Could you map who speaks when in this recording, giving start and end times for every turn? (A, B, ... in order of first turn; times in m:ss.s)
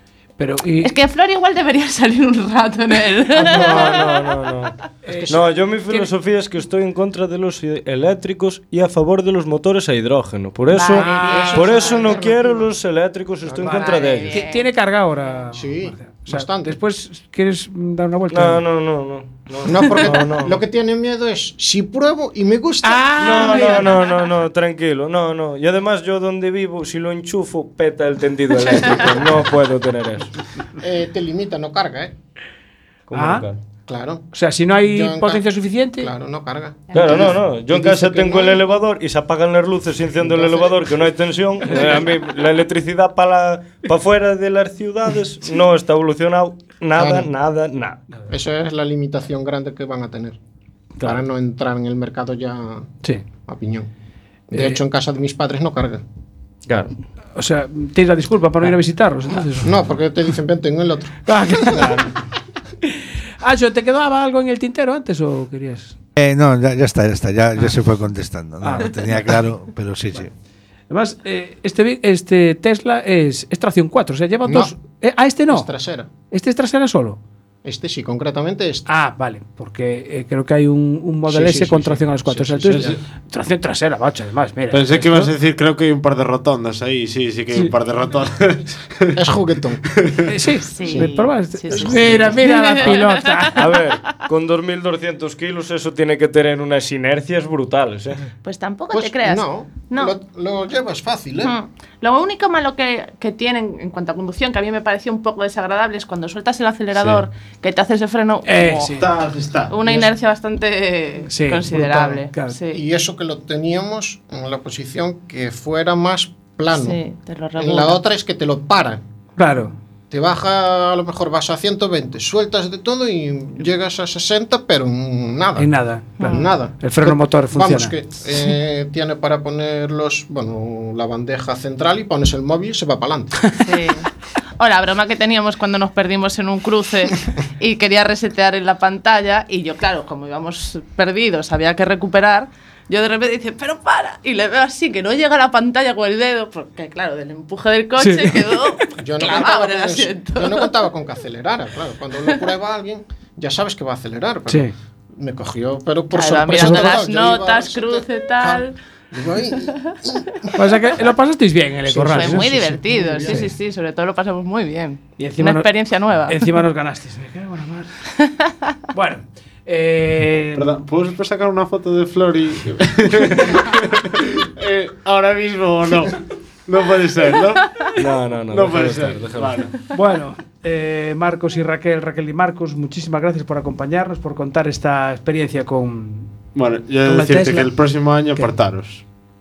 0:00.4-0:00.9 A
0:00.8-0:04.2 B
0:03.3-0:04.7 C
0:05.0-0:05.5 A
0:05.1-0:05.6 D
0:05.3-0:14.4 C
0:10.7-0:12.5 B
0:11.0-0:12.7 D
0:13.4-0:14.2 D
0:13.7-0:14.7 B
0:13.7-0:18.6 A
0:15.5-0:16.8 D
0:18.3-0:20.6 C
0:19.6-0:23.9 D
0:22.8-0:24.1 A
0:23.1-0:30.4 C
0:30.8-0:32.1 D
0:33.1-0:33.6 C
0:33.1-0:33.4 A
0:33.9-0:34.3 D
0:34.3-0:36.1 A
0:34.8-0:38.8 D
0:36.9-0:37.2 B
0:36.9-0:48.0 C
0:40.2-0:40.9 D
0:41.7-0:42.0 A
0:47.0-0:47.3 D
0:48.3-0:50.4 D
0:51.0-0:52.9 D
0:53.4-0:53.9 D
0:54.5-0:56.0 D
0:56.7-0:56.9 C
0:57.4-0:59.8 A
0:59.6-1:01.9 D
1:01.3-1:02.1 A
1:02.8-1:06.0 A
1:06.2-1:10.3 E
1:08.6-1:09.4 A
1:10.9-1:15.7 A
1:14.4-1:14.7 D
1:15.5-1:16.1 D
1:16.3-1:17.2 A
1:17.6-1:18.9 D
1:18.9-1:25.3 A
1:21.3-1:23.0 D
1:24.7-1:29.1 F
1:29.2-1:29.8 D
1:29.9-1:30.3 F
1:30.3-1:33.6 A
1:30.7-1:33.5 B
1:30.8-1:32.4 D
1:33.6-1:38.3 C
1:38.4-1:40.1 B
1:38.9-1:41.6 D
1:41.4-1:49.0 B
1:47.0-1:47.2 F
1:48.4-1:49.1 A
1:48.9-1:49.8 F
1:49.7-1:52.8 B
1:51.3-1:52.6 A
1:51.8-1:52.2 D
1:52.7-1:57.0 D
1:56.7-1:58.0 B
1:57.6-1:59.0 D
1:59.4-1:59.7 A
2:00.1-2:13.4 D
2:05.6-2:08.0 A
2:06.2-2:06.5 B
2:13.6-2:14.1 B
2:14.6-2:30.7 B
2:28.0-2:28.4 A
2:29.0-2:40.6 D
2:36.1-2:38.7 B
2:36.6-2:37.0 A
2:40.6-2:42.7 A
2:41.9-2:43.5 D
2:42.1-2:46.6 B
2:43.3-2:43.5 A
2:45.2-2:45.7 A
2:46.3-2:47.9 A
2:48.3-2:48.5 B
2:48.9-2:50.7 A
2:50.6-2:57.6 F
2:58.0-2:59.7 C
2:58.5-2:59.7 F
2:59.9-3:06.4 A
3:06.5-3:09.0 F
3:07.0-3:07.7 A